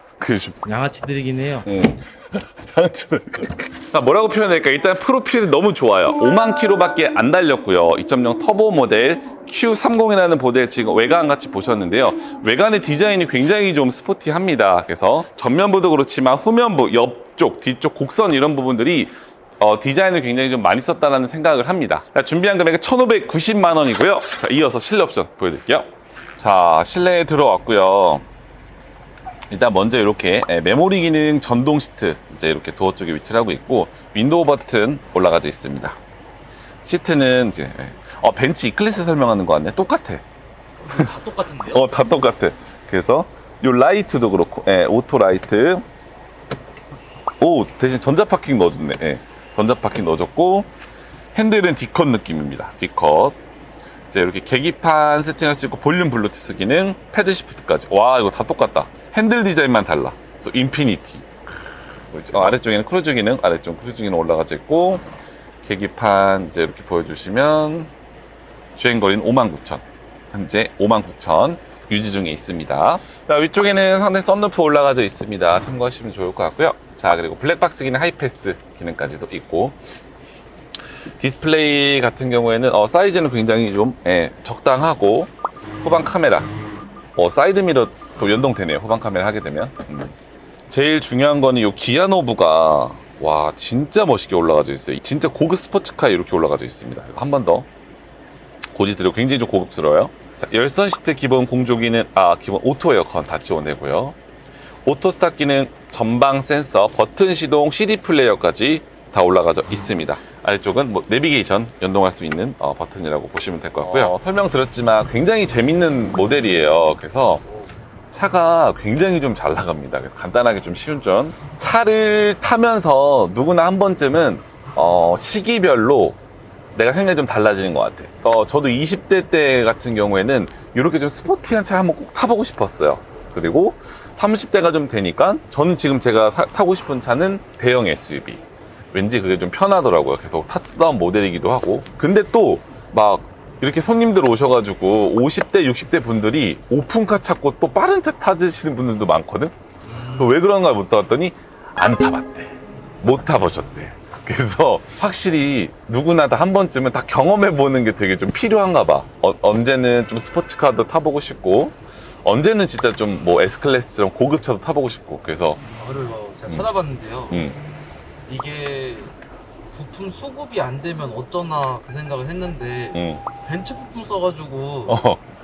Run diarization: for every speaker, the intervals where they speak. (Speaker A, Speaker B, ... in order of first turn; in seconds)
Speaker A: 0.2-0.6, 1.7-28.2, 29.5-36.0, 36.9-40.2, 41.7-45.9, 47.4-50.7, 51.4-53.4, 54.1-61.3, 62.1-65.0, 65.6-67.9, 68.8-79.8, 81.2-86.5, 87.2-90.2, 90.7-97.7, 98.7-104.2, 104.8-117.4, 118.1-126.2, 126.8-149.5, 150.2-165.6, 167.3-167.6, 172.9-173.2, 174.9-175.2
Speaker B: 0.7-1.7, 40.8-41.8, 149.9-150.3, 165.7-167.5, 168.3-169.2, 169.7-175.0